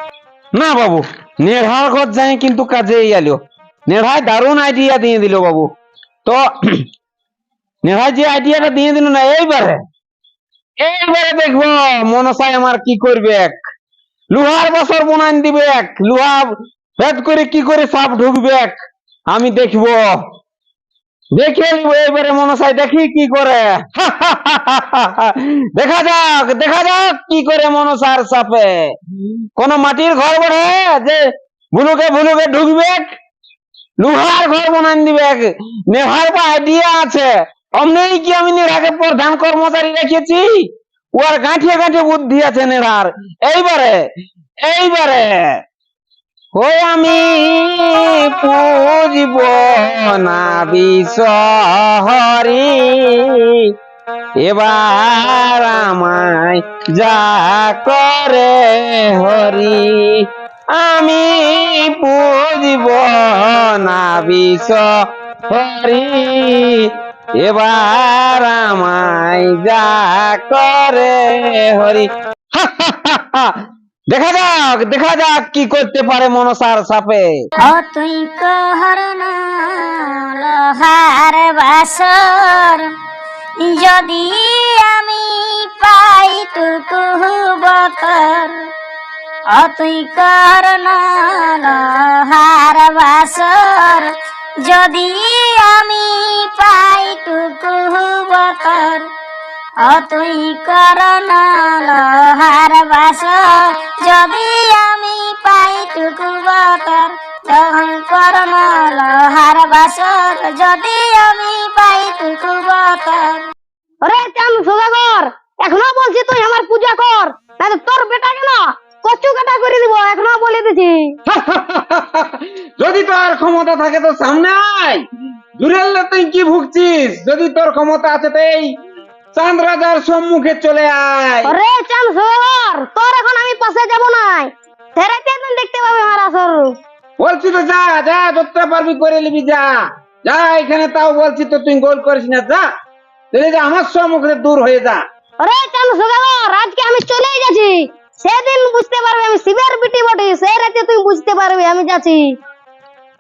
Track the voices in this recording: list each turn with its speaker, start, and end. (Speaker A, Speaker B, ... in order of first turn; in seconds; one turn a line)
Speaker A: 0.5-5.7
Speaker A: 6.3-6.8
Speaker A: 7.8-9.8
Speaker A: 10.8-13.6
Speaker A: 14.3-18.8
Speaker A: 19.3-20.1
Speaker A: 21.4-28.9
Speaker A: 29.6-33.2
Speaker A: 34.0-44.0
Speaker A: 44.6-45.6
Speaker A: 46.5-53.5
Speaker A: 54.4-65.0
Speaker A: 65.5-73.5
Speaker A: 74.1-77.3
Speaker B: 77.6-82.9
Speaker B: 83.6-88.7
Speaker B: 89.5-99.1
Speaker B: 99.8-113.5
Speaker C: 114.0-121.2
Speaker A: 121.3-125.0
Speaker A: 125.6-128.7
Speaker A: 129.3-131.5
Speaker C: 131.4-136.7
Speaker A: 137.2-142.7
Speaker A: 143.3-145.0
Speaker C: 145.4-152.3